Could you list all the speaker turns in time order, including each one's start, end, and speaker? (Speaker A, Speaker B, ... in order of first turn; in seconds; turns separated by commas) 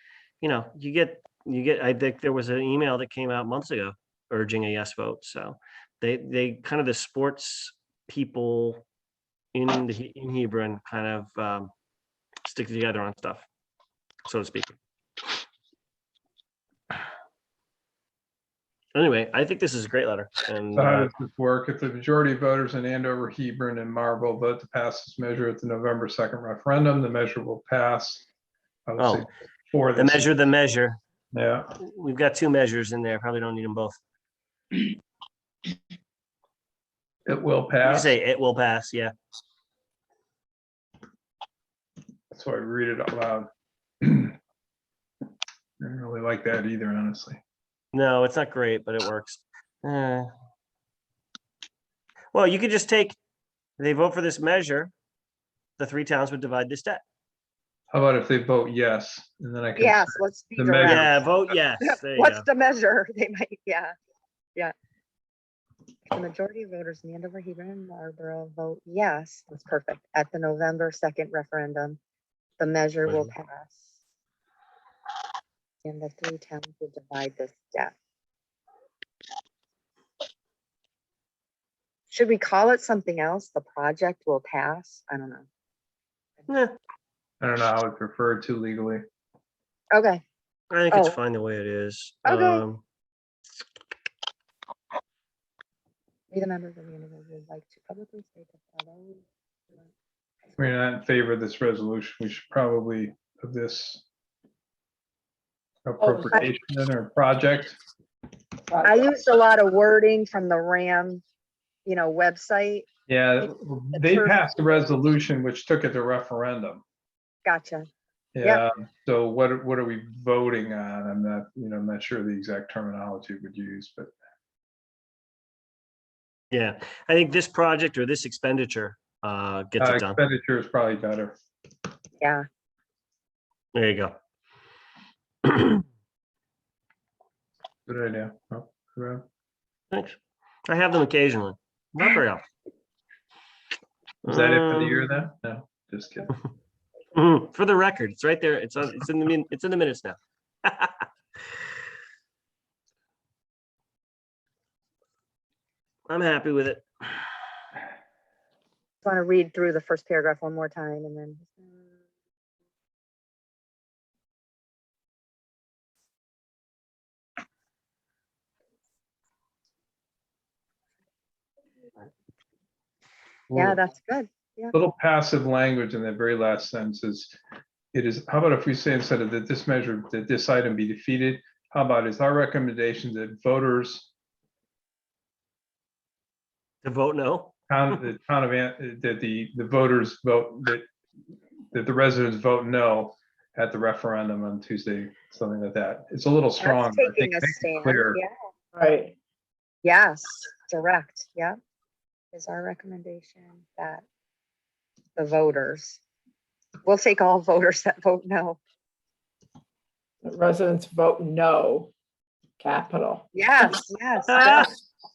Speaker A: 0.4-8.8, Speaker A: 9.5-11.7, Speaker A: 12.4-13.5, Speaker A: 14.3-14.8, Speaker A: 18.9-21.1, Speaker B: 20.7-28.3, Speaker B: 28.9-30.3, Speaker A: 29.0-29.3, Speaker A: 29.9-31.0, Speaker B: 31.3-31.7, Speaker A: 31.8-34.0, Speaker B: 37.3-38.1, Speaker A: 37.8-39.1, Speaker B: 42.3-43.5, Speaker B: 44.0-44.4, Speaker B: 45.8-47.4, Speaker A: 47.9-50.3, Speaker A: 52.3-53.2, Speaker A: 53.8-54.9, Speaker A: 55.8-57.0, Speaker B: 57.9-61.2, Speaker C: 59.8-61.3, Speaker A: 60.8-62.5, Speaker C: 61.8-63.9, Speaker C: 66.1-72.0, Speaker C: 72.6-73.8, Speaker A: 73.1-73.3, Speaker C: 75.8-77.9, Speaker C: 82.1-85.5, Speaker A: 86.5-86.8, Speaker B: 87.4-89.0, Speaker C: 89.9-90.2, Speaker A: 90.7-92.8, Speaker C: 90.9-91.2, Speaker C: 92.2-92.6, Speaker C: 96.3-99.2, Speaker B: 100.6-104.0, Speaker B: 105.9-107.8, Speaker D: 106.0-106.5, Speaker D: 108.7-109.1, Speaker C: 108.8-111.2, Speaker C: 111.8-112.9, Speaker B: 113.1-116.8, Speaker C: 113.4-114.7, Speaker C: 117.5-117.9, Speaker B: 118.3-124.1, Speaker A: 126.5-130.2, Speaker B: 129.8-131.4, Speaker C: 132.2-132.4, Speaker A: 133.7-134.2, Speaker A: 135.5-135.8, Speaker B: 137.9-139.2, Speaker A: 139.9-142.4, Speaker B: 144.2-146.3, Speaker A: 144.2-145.2, Speaker A: 147.1-151.1, Speaker A: 156.1-156.9, Speaker C: 159.0-161.5, Speaker B: 173.5-173.8, Speaker C: 173.5-174.8, Speaker B: 174.7-177.3, Speaker B: 177.9-184.1, Speaker A: 186.8-188.0, Speaker B: 187.7-190.9, Speaker B: 191.7-198.2, Speaker C: 196.6-198.3, Speaker D: 198.8-199.2, Speaker C: 199.8-201.6, Speaker C: 202.3-204.0, Speaker C: 205.2-206.0, Speaker C: 206.8-208.6, Speaker D: 210.2-211.9, Speaker D: 212.6-213.3, Speaker C: 213.3-214.7, Speaker A: 214.3-214.7